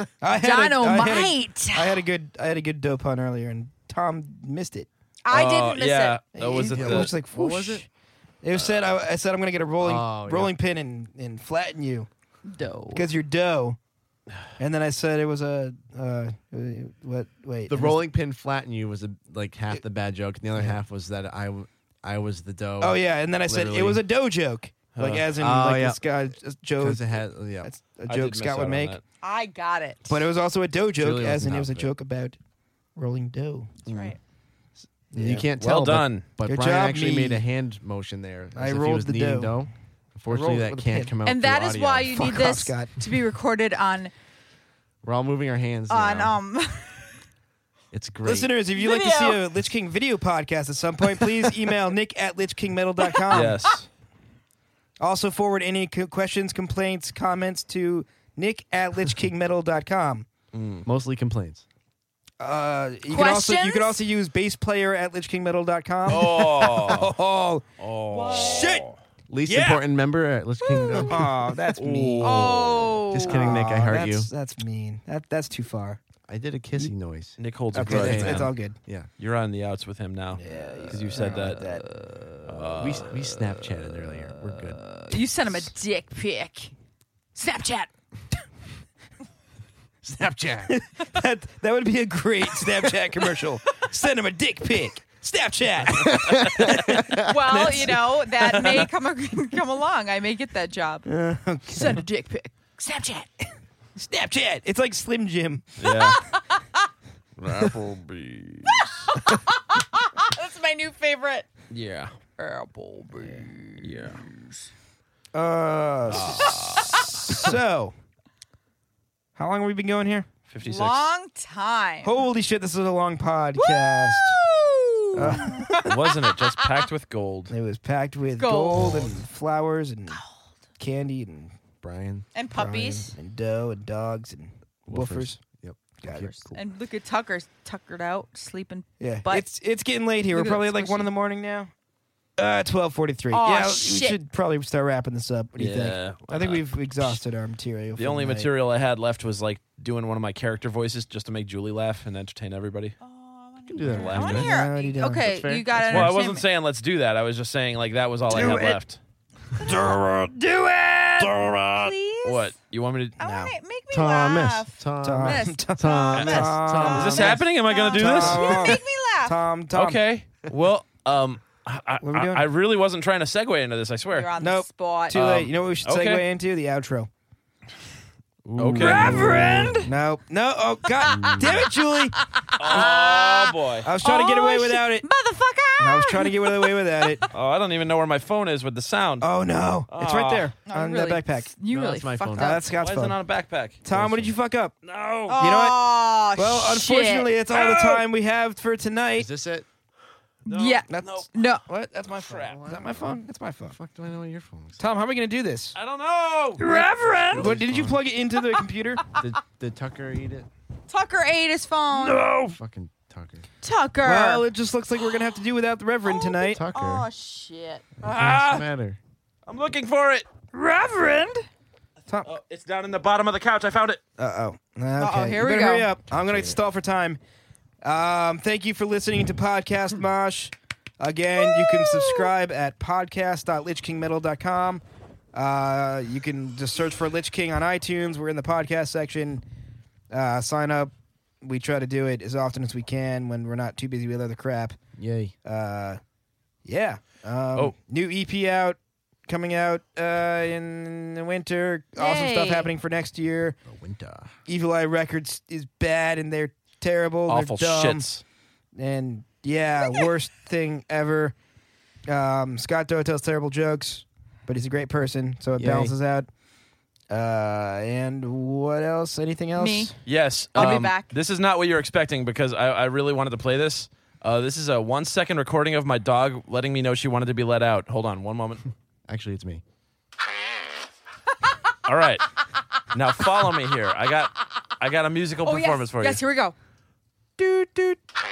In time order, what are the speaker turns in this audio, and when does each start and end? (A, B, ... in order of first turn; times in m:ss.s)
0:00.2-0:04.9 A
0:00.4-0:02.0 B
0:05.2-0:06.2 B
0:05.3-0:07.1 C
0:06.4-0:07.8 A
0:06.7-0:07.8 D
0:08.4-0:12.1 A
0:08.5-0:09.0 C
0:09.8-0:10.5 D
0:12.5-0:13.0 B
0:12.9-0:13.8 A
0:14.6-0:18.0 A
0:17.7-0:24.0 D
0:22.8-0:29.0 A
0:25.0-0:25.3 C
0:25.4-0:26.0 D
0:26.8-0:27.7 D
0:28.1-0:29.0 C
0:29.2-0:30.3 B
0:30.1-0:32.4 A
0:31.0-0:31.9 D
0:33.0-0:33.8 A
0:33.9-0:34.2 B
0:33.9-0:34.1 C
0:35.1-0:35.5 A
0:35.1-0:42.2 D
0:35.6-0:36.3 C
0:36.5-0:37.4 A
0:38.5-0:39.6 A
0:40.3-0:41.2 A
0:41.2-0:44.1 B
0:42.1-0:42.9 A
0:45.0-0:46.4 D
0:45.9-0:47.1 B
0:47.9-0:48.6 D
0:48.2-0:53.6 A
0:48.8-0:49.4 B
0:53.3-0:53.9 C
0:55.0-1:00.3 A
1:00.5-1:00.9 C
1:00.8-1:01.6 D
1:02.4-1:07.7 A
1:03.1-1:04.0 B
1:06.1-1:07.1 C
1:07.8-1:09.0 C
1:08.1-1:08.8 B
1:08.3-1:08.9 A
1:09.3-1:11.3 D
1:09.4-1:09.8 A
1:10.6-1:11.2 B
1:11.0-1:16.0 A
1:11.8-1:13.0 C
1:12.2-1:13.6 B
1:13.1-1:14.3 D
1:16.3-1:19.1 D
1:17.4-1:18.5 C
1:17.7-1:18.8 A
1:19.2-1:21.6 C
1:20.4-1:21.8 A
1:21.0-1:21.4 D
1:21.6-1:22.2 B
1:22.4-1:23.4 C
1:22.8-1:25.0 D
1:25.0-1:26.7 B
1:27.4-1:27.9 B
1:30.0-1:30.8 D
1:30.7-1:38.9 A
1:36.3-1:36.6 D
1:37.2-1:41.1 B
1:41.1-1:42.0 A
1:41.7-1:43.3 B
1:44.0-1:46.1 A
1:45.8-1:46.2 C
1:46.3-1:46.6 B
1:47.4-1:48.8 C
1:48.7-1:51.5 B
1:51.7-1:52.1 C
1:52.4-1:54.6 B
1:53.8-1:54.2 C
1:55.3-1:57.9 A
1:56.1-1:57.5 C
1:59.4-2:00.3 A
2:00.5-2:01.1 C
2:00.6-2:02.2 B
2:02.0-2:04.4 A
2:03.6-2:06.0 B
2:05.2-2:05.9 A
2:05.2-2:07.5 C
2:07.5-2:10.2 A
2:08.4-2:09.1 B
2:10.1-2:10.4 B
2:10.8-2:11.6 A
2:11.8-2:12.3 D
2:12.3-2:13.2 B
2:12.5-2:15.4 A
2:14.9-2:16.6 D
2:16.0-2:16.4 A
2:16.5-2:19.5 B
2:19.0-2:21.7 A
2:20.3-2:21.1 B
2:22.4-2:28.5 A
2:23.3-2:24.2 B
2:25.6-2:27.2 C
2:28.0-2:33.0 C
2:33.0-2:36.5 B
2:33.7-2:36.1 D
2:33.8-2:34.5 C
2:34.3-2:35.3 A
2:35.8-2:39.0 C
2:38.3-2:38.8 A
2:39.6-2:42.5 B
2:39.6-2:40.3 A
2:39.8-2:40.1 C
2:41.2-2:41.6 A
2:41.2-2:43.2 C
2:43.2-2:43.5 A
2:43.2-2:49.4 B
2:43.9-2:47.3 D
2:45.0-2:50.0 A
2:46.9-2:48.8 C
2:49.7-2:54.3 C
2:52.0-2:52.5 A
2:54.1-2:55.2 B
2:54.4-2:57.1 A
2:55.1-2:56.2 C
2:58.4-2:59.8 D
2:58.6-2:59.8 C
2:58.8-3:02.2 A
2:58.8-2:59.9 B
3:01.2-3:01.6 D
3:02.3-3:07.2 B
3:02.6-3:03.9 C
3:03.8-3:05.1 A
3:05.8-3:07.2 A
3:07.3-3:09.3 C
3:09.2-3:11.5 A
3:09.9-3:10.5 C
3:10.7-3:12.6 B
3:11.7-3:12.6 D
3:12.4-3:13.2 A
3:12.8-3:13.8 C
3:13.8-3:14.8 A
3:13.9-3:14.3 D
3:14.8-3:15.4 C
3:15.3-3:18.0 B
3:15.4-3:19.3 A
3:19.2-3:19.7 D
3:20.5-3:21.6 B
3:20.5-3:21.3 C
3:20.9-3:23.8 A
3:22.2-3:22.6 C
3:22.3-3:24.8 D
3:24.8-3:25.8 A
3:25.8-3:26.7 C
3:26.6-3:29.0 A
3:26.6-3:27.5 B
3:27.1-3:28.0 D
3:29.2-3:30.5 D
3:30.9-3:32.2 B
3:32.0-3:32.6 C
3:32.5-3:33.5 D
3:33.6-3:34.5 B
3:34.0-3:36.6 A
3:36.0-3:37.8 B
3:36.5-3:37.1 D
3:38.0-3:39.0 D
3:38.0-3:38.7 C
3:39.5-3:40.3 C
3:40.5-3:41.4 B
3:42.2-3:44.0 C
3:44.2-3:47.2 A
3:45.0-3:45.9 B
3:46.2-3:46.6 D
3:47.8-3:54.8 A
3:51.8-3:52.2 B
3:55.3-3:59.4 A
4:00.1-4:04.8 A
4:05.0-4:05.4 D
4:05.4-4:06.0 A
4:06.6-4:13.6 A
4:12.0-4:12.7 B
4:13.7-4:14.4 D
4:14.5-4:18.1 A
4:17.3-4:18.2 C
4:18.8-4:21.4 A
4:22.1-4:26.3 A
4:25.6-4:25.9 D
4:27.1-4:30.0 A
4:29.6-4:29.9 B
4:30.1-4:38.7 C
4:30.6-4:31.1 B
4:30.6-4:30.8 A
4:39.1-4:39.6 D
4:41.8-4:42.3 C
4:42.9-4:46.2 C
4:45.4-4:46.6 B
4:47.4-4:48.0 A